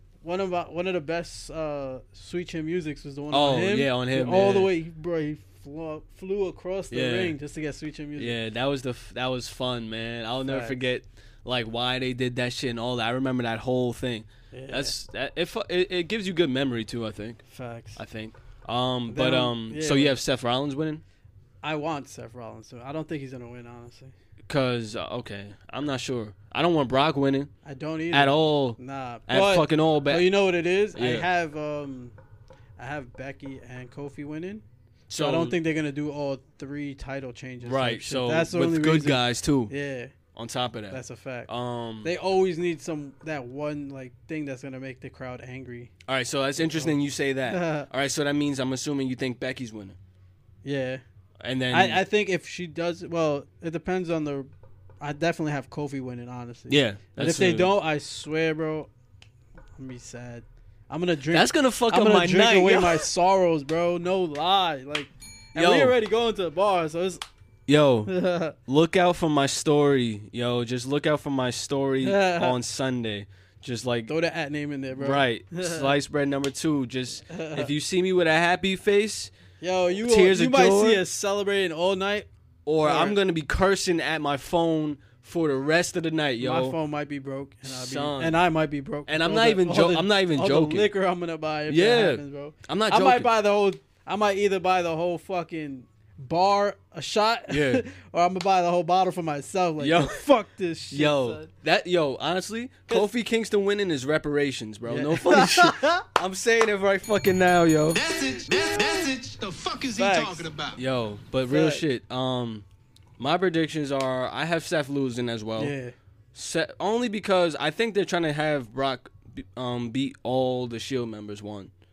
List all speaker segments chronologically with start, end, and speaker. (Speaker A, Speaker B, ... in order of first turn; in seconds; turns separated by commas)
Speaker A: 0.2-8.4, Speaker B: 3.3-4.7, Speaker B: 6.9-7.4, Speaker B: 8.2-17.4, Speaker A: 10.4-10.8, Speaker A: 14.5-15.0, Speaker A: 17.5-18.0, Speaker B: 18.0-21.0, Speaker A: 19.1-20.2, Speaker A: 21.6-24.1, Speaker B: 24.5-27.5, Speaker A: 27.6-32.1, Speaker B: 28.1-30.3, Speaker B: 30.9-31.3, Speaker A: 32.8-34.6, Speaker B: 35.1-35.6, Speaker A: 35.2-40.1, Speaker B: 37.6-39.7, Speaker B: 40.3-42.1, Speaker A: 40.9-41.5, Speaker A: 42.0-45.9, Speaker B: 46.1-50.0, Speaker A: 46.6-47.0, Speaker A: 47.5-47.9, Speaker A: 50.6-51.0, Speaker B: 51.4-52.0, Speaker A: 51.7-58.9, Speaker B: 56.7-57.7, Speaker A: 59.8-67.2, Speaker B: 61.3-63.1, Speaker B: 65.5-66.0, Speaker B: 67.7-68.1, Speaker A: 68.1-68.6, Speaker B: 68.7-74.1, Speaker A: 72.0-72.6, Speaker A: 74.1-75.9, Speaker B: 75.0-79.3, Speaker A: 77.3-77.7, Speaker A: 79.6-82.3, Speaker B: 80.0-81.0, Speaker B: 82.7-86.8, Speaker A: 82.8-83.2, Speaker A: 86.4-101.5, Speaker B: 87.7-88.4, Speaker B: 89.1-90.9, Speaker B: 91.7-93.3, Speaker B: 97.5-97.8, Speaker B: 99.8-100.3, Speaker B: 100.9-108.0, Speaker A: 104.9-106.1, Speaker C: 107.9-110.8, Speaker A: 109.9-110.5, Speaker B: 110.8-112.6, Speaker A: 111.5-111.8, Speaker B: 113.2-115.7, Speaker A: 115.6-116.0, Speaker B: 116.3-121.7